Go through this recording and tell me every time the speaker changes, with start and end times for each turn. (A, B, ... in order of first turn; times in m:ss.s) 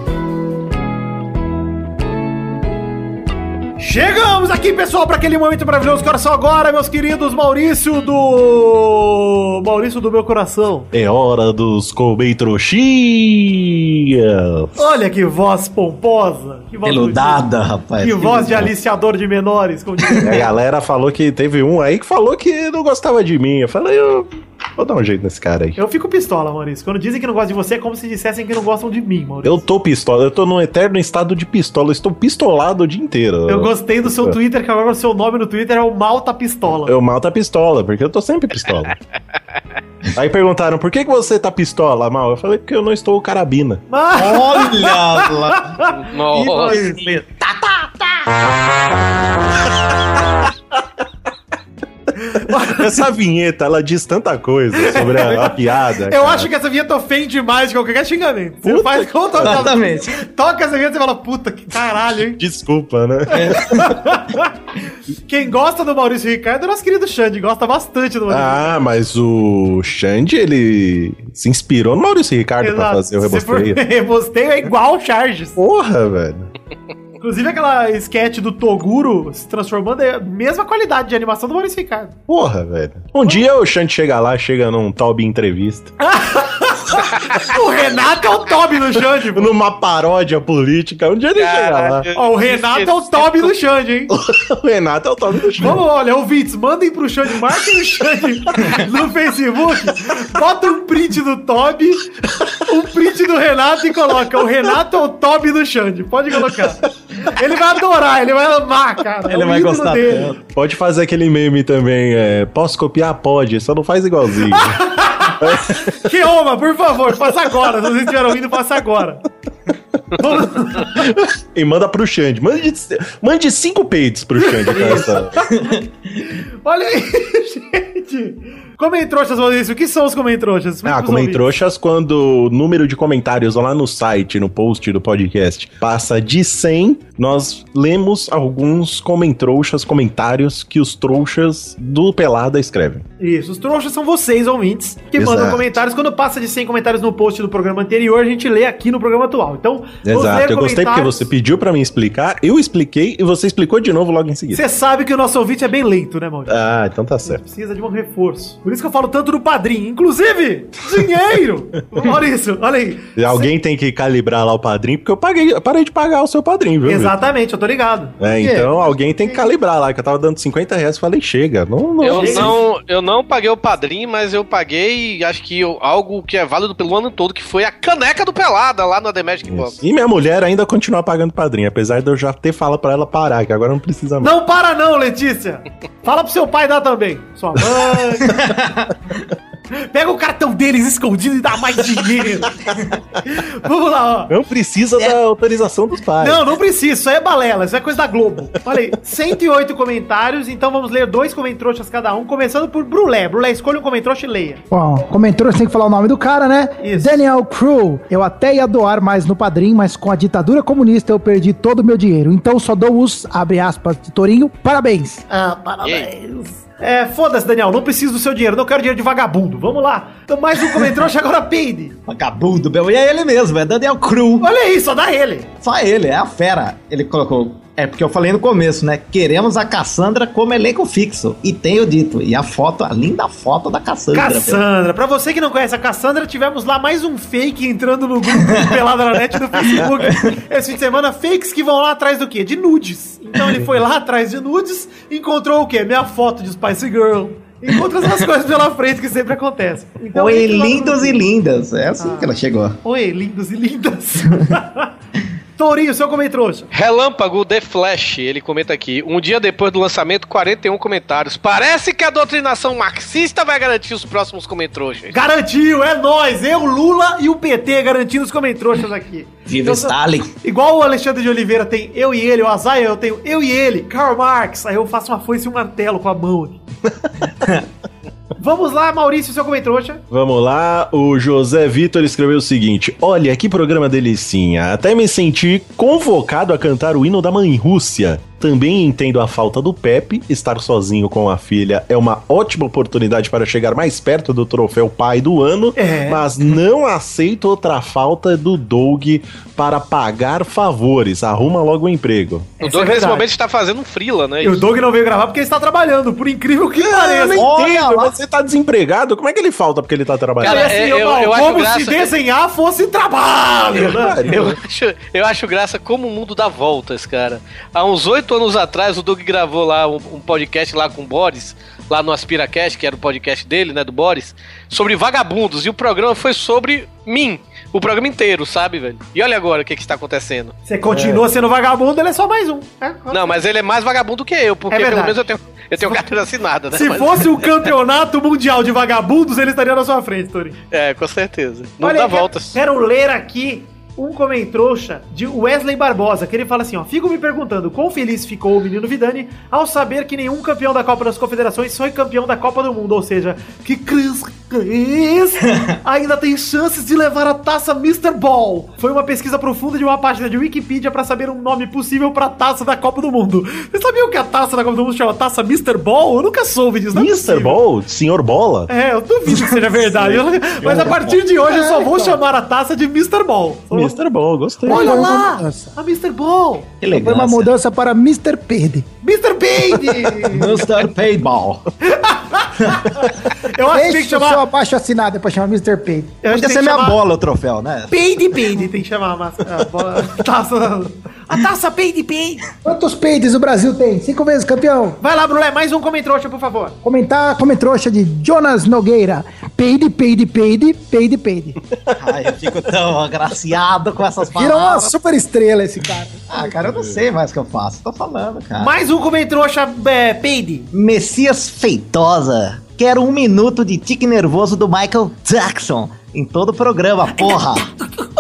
0:03.8-0:10.9 A
0:10.9-0:14.8 B
0:14.8-0:17.5 A
0:16.8-0:18.7 C
0:18.0-0:20.5 A
0:20.0-0:20.5 C
0:20.2-0:25.8 B
0:25.8-0:29.6 A
0:29.4-0:34.4 B
0:33.5-0:37.0 A
0:36.8-0:39.0 B
0:40.2-0:43.8 B
0:43.9-0:47.0 A
0:44.1-0:45.8 C
0:45.9-0:46.9 D
0:46.4-0:47.9 C
0:52.2-0:53.0 A
0:52.3-0:56.5 B
0:54.7-1:02.4 A
0:58.6-0:59.7 B
0:59.4-1:00.2 C
1:02.4-1:03.6 B
1:03.3-1:04.5 A
1:03.3-1:04.2 C
1:05.3-1:08.9 A
1:08.3-1:13.8 B
1:12.6-1:15.6 A
1:15.6-1:16.5 B
1:17.2-1:22.2 A
1:22.3-1:25.9 B
1:26.0-1:29.5 A
1:29.3-1:32.1 B
1:31.4-1:33.5 D
1:32.2-1:34.1 A
1:34.1-1:35.8 B
1:35.6-1:50.3 A
1:49.3-1:50.4 C
1:50.5-1:56.0 B
1:54.5-1:59.2 A
2:00.2-2:01.2 A
2:00.8-2:05.3 B
2:04.5-2:05.4 A
2:04.7-2:05.9 C
2:06.2-2:11.5 A
2:10.8-2:23.0 B
2:23.2-2:31.3 A
2:25.2-2:25.7 B
2:30.0-2:34.6 B
2:34.5-2:36.6 A
2:36.5-2:37.4 B
2:37.2-2:43.5 A
2:43.2-2:47.2 B
2:46.9-2:48.2 A
2:48.2-2:52.6 B
2:48.4-2:49.4 C
2:52.0-2:59.8 D
2:52.1-2:52.6 A
2:59.5-3:04.3 B
3:04.2-3:08.4 A
3:08.3-3:09.0 C
3:09.8-3:12.6 A
3:13.2-3:14.3 A
3:14.3-3:16.4 B
3:16.2-3:24.6 A
3:24.7-3:35.2 E
3:26.8-3:27.2 A
3:35.3-3:42.0 A
3:35.8-3:36.1 D
3:42.1-3:44.5 C
3:44.4-3:45.5 A
3:45.6-3:54.6 C
3:54.1-4:11.2 A
3:58.4-3:58.7 C
4:00.0-4:00.4 C
4:10.1-4:12.8 C
4:12.0-4:12.3 A
4:12.8-4:14.9 A
4:15.6-4:16.7 A
4:16.7-4:25.2 D
4:25.1-4:36.6 A
4:29.5-4:30.3 C
4:37.4-4:37.6 C
4:38.4-4:40.0 A
4:40.1-5:02.5 B
4:55.8-4:56.2 A
5:02.6-5:03.3 A
5:02.6-5:04.6 D
5:04.4-5:07.5 A
5:06.8-5:10.7 B
5:07.4-5:08.2 C
5:10.4-5:12.1 D
5:10.4-5:14.2 A
5:13.8-5:14.6 B
5:14.2-5:30.6 D
5:30.7-5:33.4 A
5:31.0-5:31.2 B
5:33.1-5:37.4 D
5:34.7-5:35.2 A
5:35.8-5:36.1 A
5:36.7-5:40.6 A
5:40.7-5:42.6 D
5:41.8-6:07.6 A
6:06.9-6:08.7 B
6:08.7-6:14.0 A
6:09.3-6:11.2 C
6:11.5-6:12.2 E
6:13.7-6:15.1 B
6:14.6-6:15.7 E
6:14.6-6:16.7 A
6:16.8-6:17.5 C
6:16.9-6:18.9 E
6:19.0-6:20.6 A
6:20.0-6:21.7 C
6:21.8-6:24.4 A
6:22.6-6:22.9 C
6:23.7-6:26.2 E
6:26.2-6:27.0 A
6:26.3-6:27.9 C
6:27.9-6:32.4 A
6:32.6-6:35.0 E
6:35.0-6:36.8 A
6:36.8-6:41.6 E
6:42.0-6:44.9 C
6:44.3-6:46.5 E
6:46.3-6:48.7 C
6:46.6-6:47.0 B
6:48.6-6:50.7 A
6:50.7-6:57.7 C